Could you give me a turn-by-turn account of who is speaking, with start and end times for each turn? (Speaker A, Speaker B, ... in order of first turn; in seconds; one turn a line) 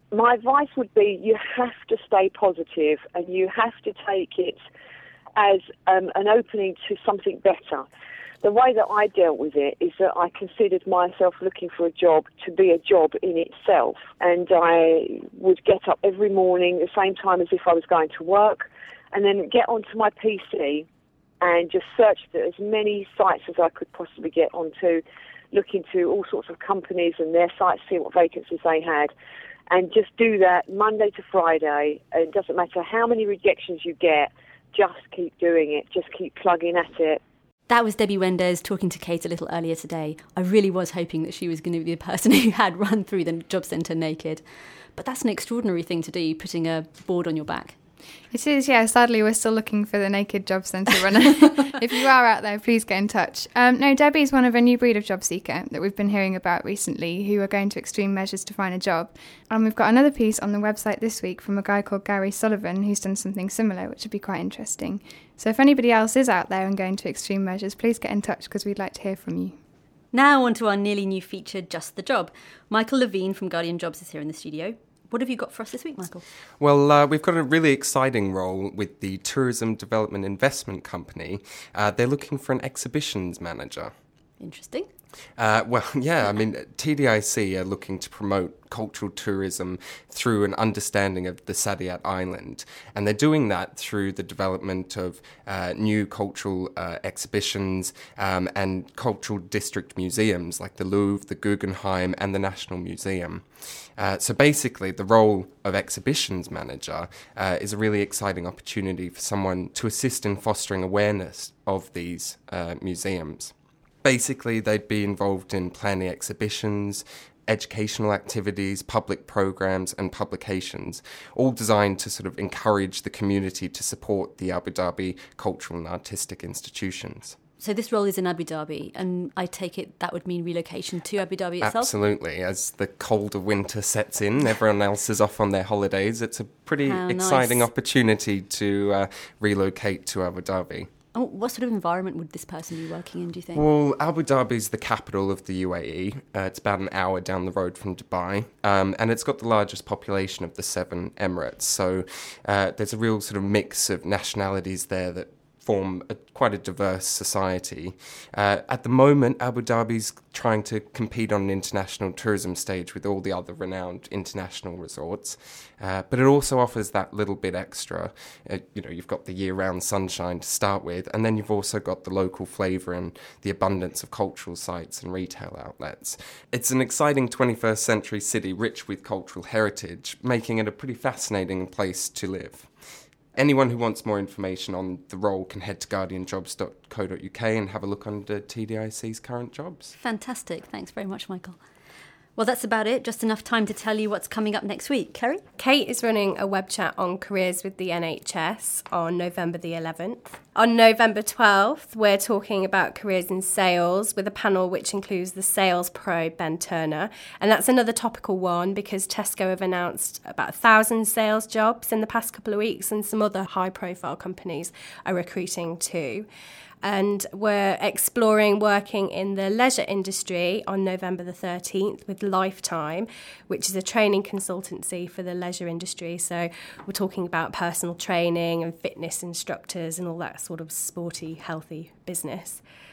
Speaker A: 0.1-4.6
Speaker A: 5.3-7.8
Speaker A: 8.4-20.9
Speaker A: 21.4-29.1
Speaker A: 29.7-37.2
Speaker B: 37.7-44.4
Speaker B: 44.9-47.8
Speaker C: 48.3-69.5
Speaker B: 70.1-76.2
Speaker D: 76.6-83.9
Speaker B: 84.4-84.9
Speaker D: 85.4-103.4
Speaker D: 104.0-113.5
Speaker D: 114.0-127.4
Speaker B: 127.6-131.9
Speaker D: 131.6-140.9
Speaker B: 136.8-137.7
Speaker B: 141.1-143.6
Speaker D: 143.5-182.7
Speaker D: 183.3-189.9
Speaker B: 190.0-191.6
Speaker B: 192.3-195.4
Speaker E: 195.6-216.2
Speaker E: 216.8-232.6